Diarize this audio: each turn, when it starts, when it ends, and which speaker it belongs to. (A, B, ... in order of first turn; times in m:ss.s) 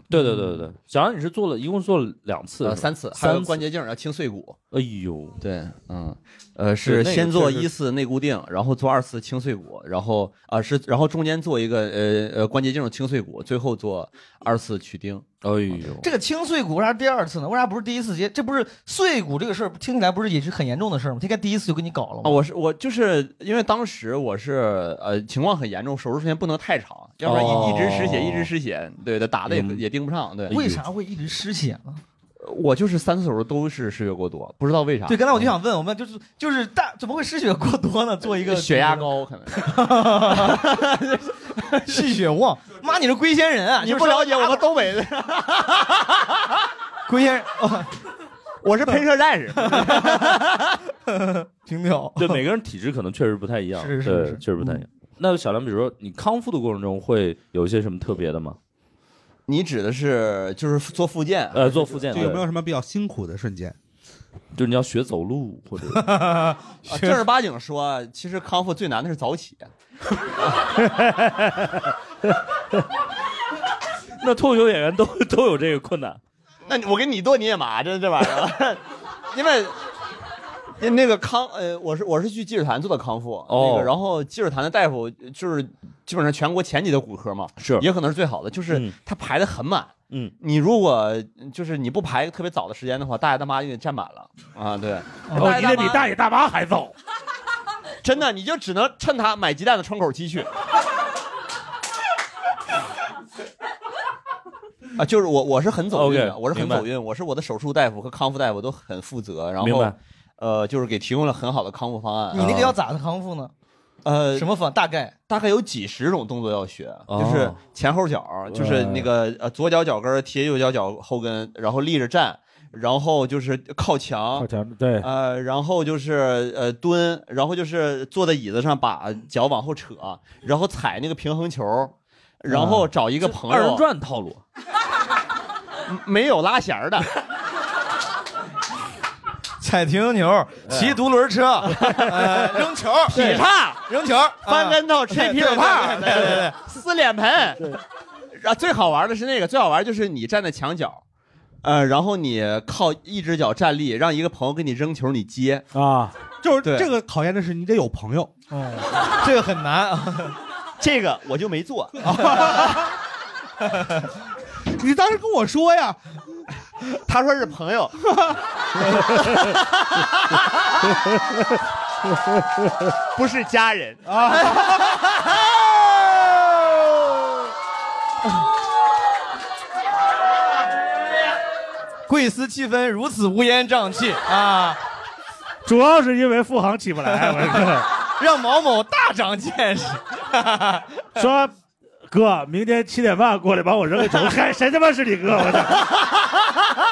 0:00.1-0:03.6 A
0:02.6-0:04.6 B
0:04.7-0:05.4 A
0:05.4-0:15.9 B
0:06.8-0:07.7 A
0:15.4-0:16.1 A
0:16.0-0:22.4 C
0:22.2-0:30.5 B
0:27.2-0:28.5 A
0:27.3-0:28.0 C
0:29.4-0:29.8 A
0:30.5-0:30.8 A
0:30.5-0:32.0 C
0:32.4-0:35.2 B
0:35.1-0:40.6 C
0:38.4-0:42.0 B
0:41.8-0:44.7 C
0:43.8-0:46.4 B
0:47.1-0:47.9 C
0:48.6-0:50.8 B
0:49.6-0:50.3 C
0:51.0-0:52.4 C
0:52.2-0:58.6 A
0:53.8-0:54.8 C
0:59.5-1:02.3 B
1:01.5-1:02.4 A
1:02.1-1:03.8 D
1:04.5-1:06.1 A
1:05.9-1:07.2 C
1:06.9-1:09.7 B
1:10.8-1:11.8 E
1:14.2-1:16.2 A
1:16.6-1:19.8 B
1:20.8-1:36.1 B
1:23.5-1:23.9 A
1:27.6-1:27.9 A
1:35.3-1:35.6 C
1:35.3-1:36.9 E
1:38.0-1:40.5 B
1:45.0-1:52.7 B
1:45.9-1:46.9 A
1:49.6-1:50.0 A
1:52.3-1:53.5 C
1:52.4-1:52.7 A
1:54.0-1:54.5 B
1:54.3-1:55.1 C
1:55.3-2:04.5 B
1:57.1-1:57.6 A
1:58.5-1:59.0 E
2:04.4-2:05.1 E
2:05.0-2:13.8 B
2:12.5-2:12.8 E
2:13.2-2:14.4 A
2:15.9-2:17.1 B
2:19.6-2:26.6 C
2:21.7-2:22.4 B
2:23.1-2:23.8 B
2:24.4-2:27.8 B
2:28.3-2:31.0 B
2:31.6-2:35.7 B
2:35.7-2:36.1 E
2:36.4-2:38.3 D
2:36.6-2:36.9 B
2:38.5-2:40.4 C
2:40.8-2:42.8 B
2:42.0-2:42.9 D
2:43.7-2:44.0 C
2:44.7-2:46.0 D
2:47.0-2:48.0 B
2:49.0-2:50.5 B
2:53.1-2:54.0 B
2:54.0-2:54.7 D
3:02.1-3:04.8 C
3:05.6-3:07.9 E
3:07.3-3:10.9 C
3:11.2-3:11.5 E
3:12.1-3:15.9 E